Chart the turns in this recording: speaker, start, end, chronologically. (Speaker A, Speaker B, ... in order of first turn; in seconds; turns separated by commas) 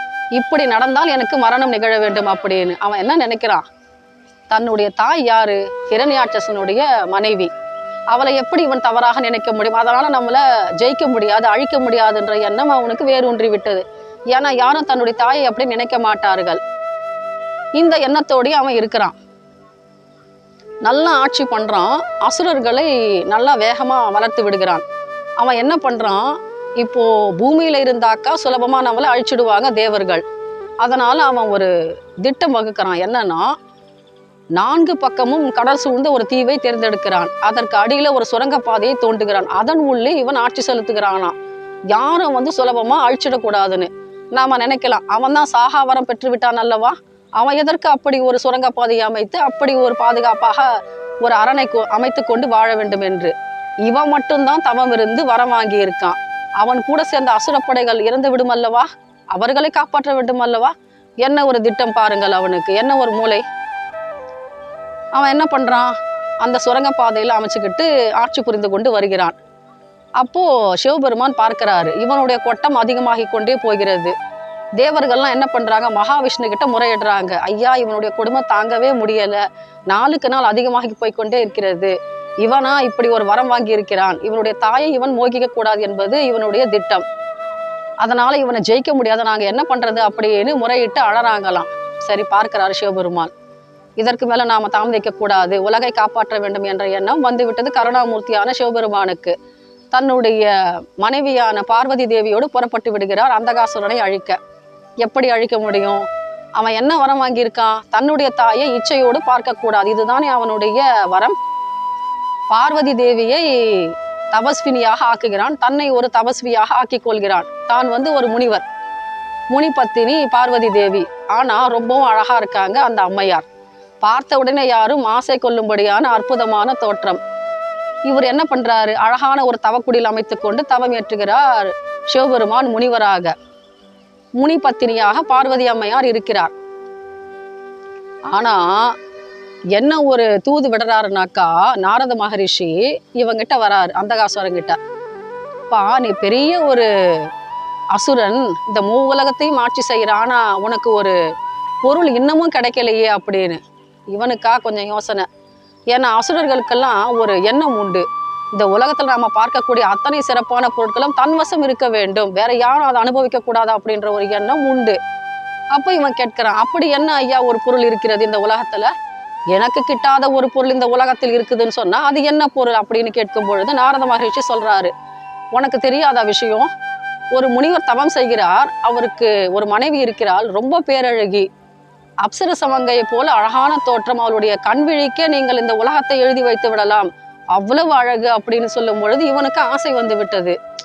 Speaker A: 0.3-3.6, Speaker A: 4.5-7.5, Speaker A: 8.1-16.6, Speaker A: 17.8-19.1, Speaker A: 20.9-24.8, Speaker A: 25.4-30.2, Speaker A: 30.8-31.7, Speaker A: 32.2-33.5, Speaker A: 34.5-41.4, Speaker A: 41.9-63.5, Speaker A: 65.1-69.4, Speaker A: 70.2-74.1, Speaker A: 74.8-87.0, Speaker A: 88.0-93.3, Speaker A: 94.0-99.4, Speaker A: 99.9-104.4, Speaker A: 105.0-111.4, Speaker A: 112.5-118.7, Speaker A: 119.5-123.5, Speaker A: 124.0-127.2, Speaker A: 128.1-133.3, Speaker A: 134.4-136.5, Speaker A: 138.3-138.9, Speaker A: 139.8-144.8, Speaker A: 145.7-147.3, Speaker A: 147.9-151.2, Speaker A: 151.8-153.6, Speaker A: 154.1-155.3, Speaker A: 155.9-165.0, Speaker A: 165.7-168.9, Speaker A: 169.5-174.9, Speaker A: 175.5-176.7, Speaker A: 177.3-181.5, Speaker A: 182.2-190.6